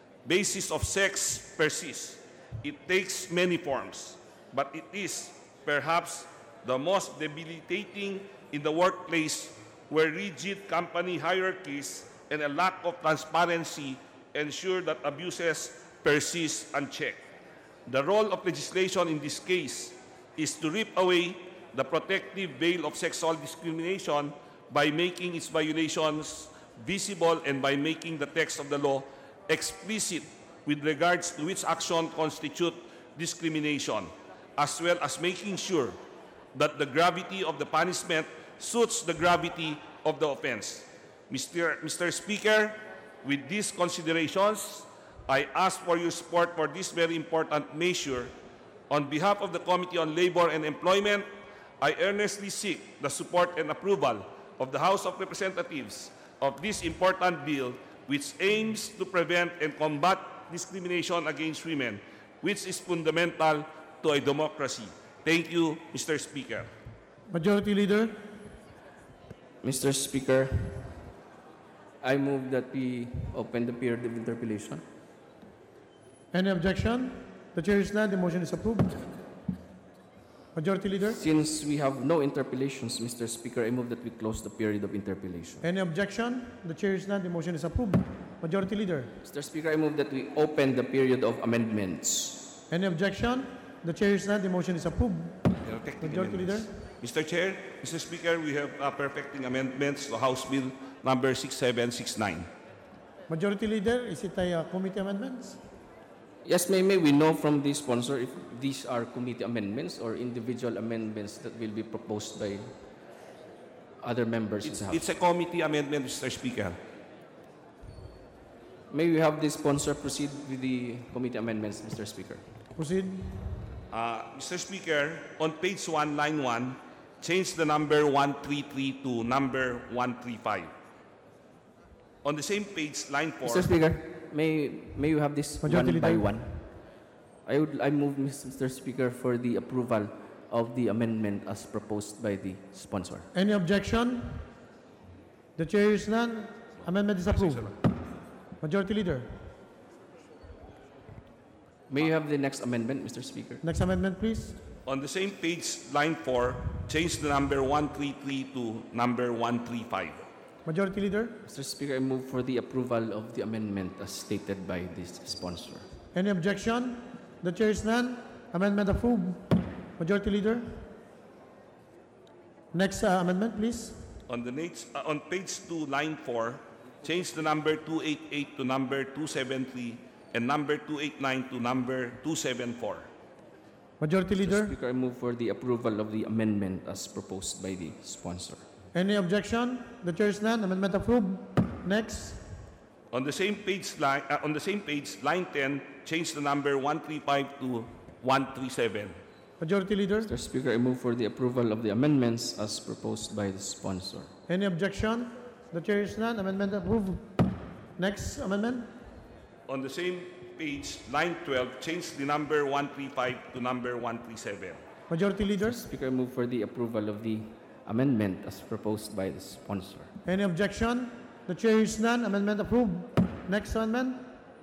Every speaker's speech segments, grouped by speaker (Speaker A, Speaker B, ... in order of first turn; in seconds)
Speaker A: 0.2-17.2, 17.9-36.0, 36.5-48.3, 48.9-51.3, 51.8-66.7, 95.6-102.5, 114.6-116.8, 123.9-130.7, 132.2-133.7, 154.9-160.2, 174.3-183.1, 193.1-199.2, 209.7-214.8
Speaker B: 67.3-68.2, 76.3-79.0, 80.5-81.2, 85.6-89.1, 92.7-96.7, 103.3-105.6, 122.8-123.5, 135.6-136.3, 143.3-144.5, 145.6-147.8, 148.6-149.3, 153.6-154.6, 160.7-161.4, 166.1-170.9, 172.7-174.0, 184.0-184.8, 188.9-192.5, 199.6-200.3, 204.5-208.9, 215.1-215.9, 220.2-224.3
Speaker C: 69.6-71.0, 72.0-74.8, 81.1-85.7, 89.2-92.5, 106.5-112.7, 114.0-115.0, 118.9-122.4, 133.4-136.7, 137.5-143.3, 151.9-153.6, 161.4-165.9, 184.4-188.6, 200.2-204.3, 215.6-220.1